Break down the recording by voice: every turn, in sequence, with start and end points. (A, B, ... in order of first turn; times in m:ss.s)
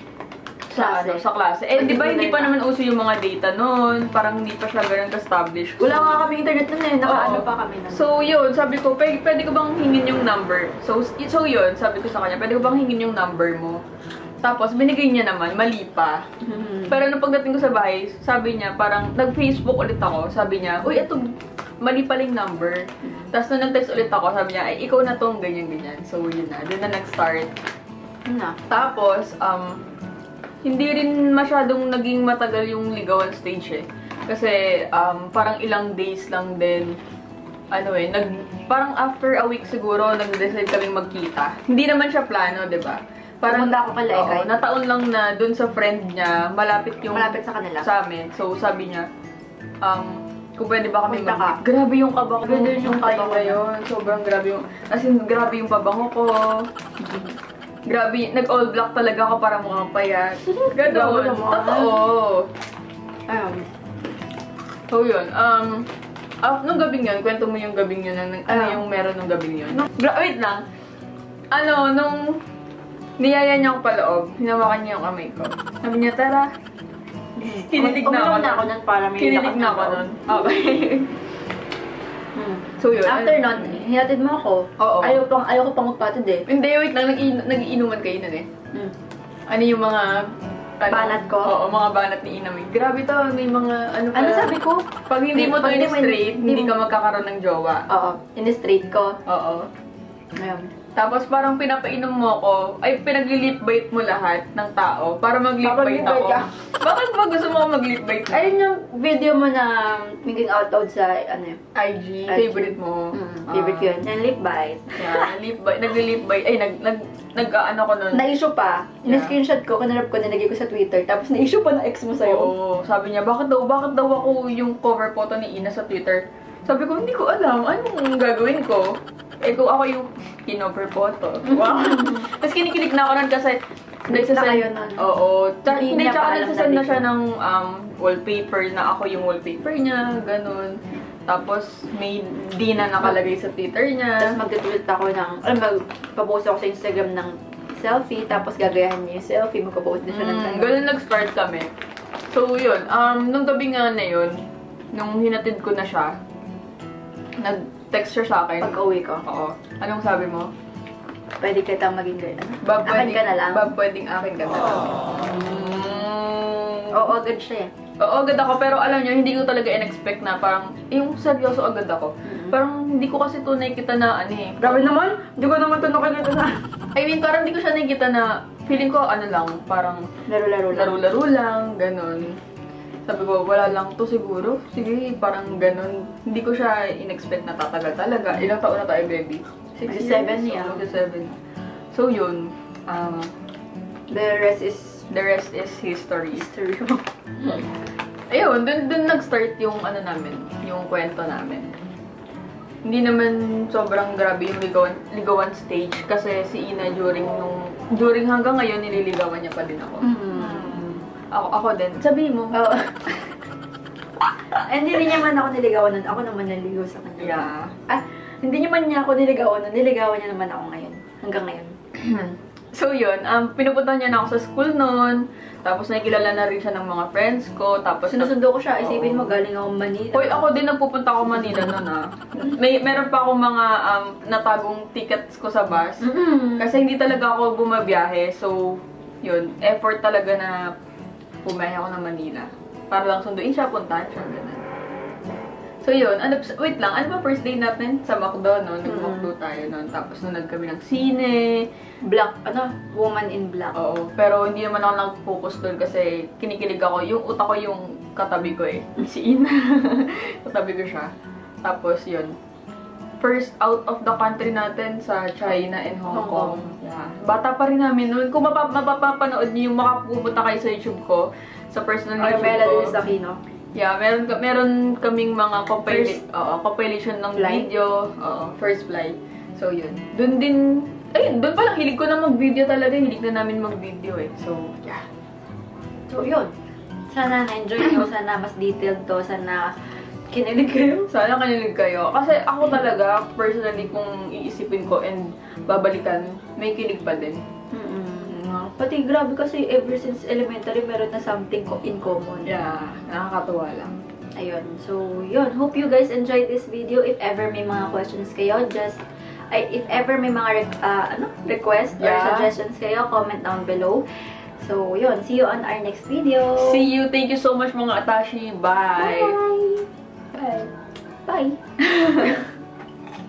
0:00.7-0:06.3 A
0:00.7-0:02.5 B
0:05.8-0:08.0 B
0:07.0-0:13.8 A
0:14.4-0:16.2 A
0:16.4-0:17.0 B
0:16.9-0:27.5 A
0:23.0-0:23.3 B
0:28.2-0:28.6 B
0:28.7-0:29.8 A
0:30.6-0:37.0 A
0:37.7-0:49.0 A
0:43.4-0:44.5 B
0:47.1-0:47.9 B
0:49.8-0:56.7 A
0:51.0-0:51.6 B
0:52.4-0:53.6 B
0:57.0-0:57.4 B
0:57.8-1:02.5 A
1:00.4-1:02.0 B
1:03.3-1:03.7 B
1:04.9-1:05.9 A
1:06.4-1:10.6 A
1:08.5-1:08.8 B
1:11.5-1:12.4 A
1:13.2-1:16.5 A
1:17.4-1:21.1 A
1:17.5-1:20.6 B
1:22.4-1:26.4 B
1:22.8-1:23.8 A
1:24.8-1:25.2 A
1:26.5-1:28.5 A
1:29.5-1:30.3 A
1:30.8-1:37.8 A
1:30.9-1:31.5 B
1:34.1-1:36.8 B
1:37.9-1:39.2 B
1:39.2-1:39.7 A
1:40.4-1:40.7 B
1:41.0-1:48.5 A
1:45.6-1:46.5 B
1:48.3-1:51.6 B
1:51.8-1:53.9 A
1:52.3-1:55.3 B
1:54.9-1:58.3 A
1:58.1-2:02.5 B
1:59.0-1:59.3 A
2:02.2-2:24.4 A
2:11.4-2:12.2 B
2:14.1-2:15.1 B
2:15.6-2:17.1 B
2:24.2-2:30.8 B
2:30.1-2:31.7 A
2:32.3-2:34.4 A
2:34.9-2:36.1 A
2:37.4-2:40.5 A
2:38.6-2:39.2 B
2:41.4-2:43.7 B
2:42.6-2:47.1 A
2:46.9-2:47.7 B
2:48.0-2:54.9 A
2:52.2-2:52.6 B
2:54.6-2:56.5 B
2:56.9-3:00.1 A
3:00.3-3:01.0 B
3:00.7-3:02.4 A
3:03.1-3:11.3 A
3:09.9-3:10.9 B
3:11.9-3:13.3 A
3:14.1-3:15.1 B
3:15.1-3:16.4 A
3:16.3-3:17.6 B
3:18.3-3:21.7 A
3:22.8-3:32.7 A
3:30.0-3:30.9 B
3:32.5-3:33.1 B
3:34.6-3:41.7 B
3:37.2-3:37.7 A
3:42.0-3:49.4 A
3:48.0-3:50.5 B
3:50.1-3:56.0 A
3:51.3-3:51.7 B
3:56.0-3:56.7 B
3:56.6-4:00.7 A
4:01.4-4:04.6 A
4:05.8-4:11.7 A
4:08.8-4:09.3 B
4:12.0-4:13.7 B
4:13.7-4:21.1 A
4:21.6-4:22.3 A
4:23.2-4:33.0 A
4:26.1-4:26.6 B
4:32.2-4:33.4 B
4:33.7-4:45.0 A
4:35.9-4:36.2 B
4:37.3-4:37.7 B
4:46.1-4:46.5 B
4:47.1-4:49.7 B
4:50.3-4:51.1 B
4:51.1-4:57.4 A
4:57.7-5:02.5 B
4:58.3-4:58.7 A
5:02.4-5:04.0 A
5:04.4-5:14.0 B
5:12.0-5:12.5 A
5:14.6-5:16.9 B
5:16.5-5:19.3 A
5:19.0-5:20.7 B
5:21.2-5:21.6 B
5:21.8-5:22.4 A